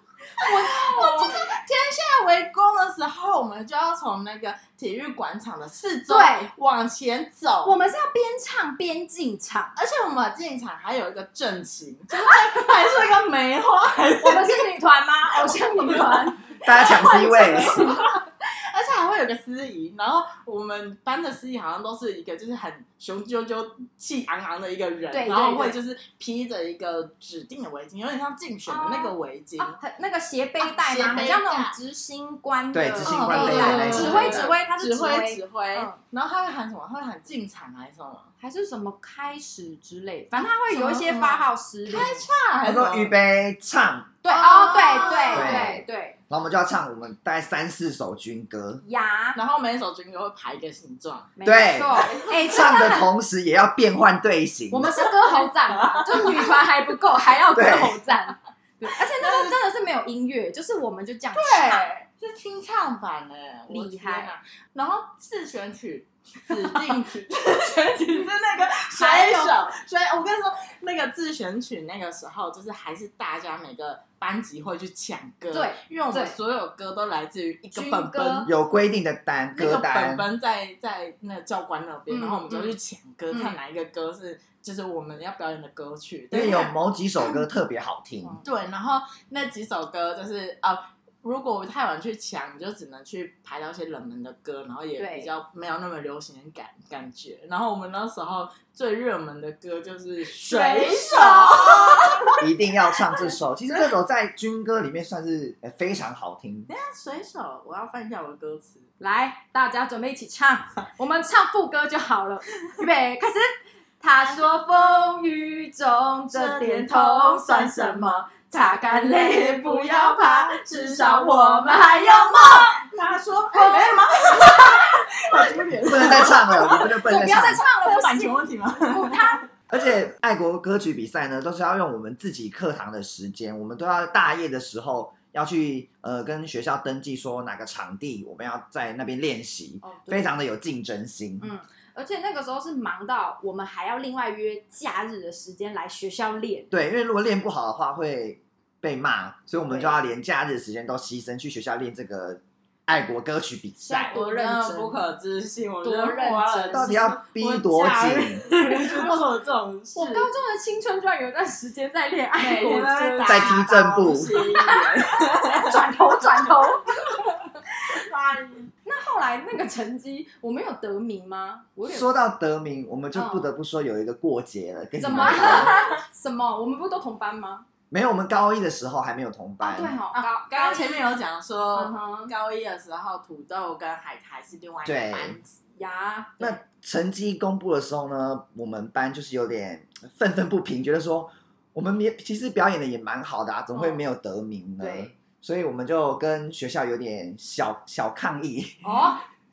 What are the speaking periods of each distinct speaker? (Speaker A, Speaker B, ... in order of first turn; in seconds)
Speaker A: 0.4-1.4, 6.1-6.5, 7.6-9.7, 14.2-18.1, 25.1-25.8, 28.7-36.0, 38.4-42.3, 44.2-46.2, 48.8-49.4, 51.4-53.1, 54.7-61.9, 63.7-64.3, 68.9-69.7, 75.5-76.4, 77.7-78.5, 82.1-82.8, 83.3-83.6, 95.0-95.3, 100.4-102.4, 109.0-122.8, 123.5-124.7, 125.4-129.4, 139.8-140.3, 141.4-146.7, 149.7-150.0, 153.8-155.0, 155.8-157.2, 158.7-159.2, 159.9-163.6, 164.4-164.8, 165.6-166.9, 168.8-172.1, 173.1-173.5, 175.0-177.7, 179.6-181.1, 181.7-182.3, 185.8-186.6, 193.7-194.0, 194.8-195.1, 198.8-199.2
Speaker B: 0.4-7.8, 9.8-14.7, 15.4-16.3, 17.5-18.2, 18.7-29.8, 30.6-31.8, 33.0-38.3, 40.4-43.2, 44.3-45.7, 49.3-51.3, 55.4-56.3, 58.8-59.6, 61.3-78.5, 79.5-87.4, 88.4-102.3, 106.7-108.9, 116.3-129.4, 154.1-160.3, 162.4-165.6, 167.9-168.7, 175.2-175.8, 180.1-185.7
Speaker C: 16.6-17.8, 32.7-34.6, 42.6-44.1, 45.3-48.8, 51.4-54.9, 57.5-58.0, 78.5-80.3, 86.3-88.4, 102.4-106.7, 125.8-127.6, 129.7-141.5, 146.7-154.1, 156.7-158.5, 163.2-164.4, 171.8-175.8, 177.9-179.9, 184.8-185.4, 186.4-199.1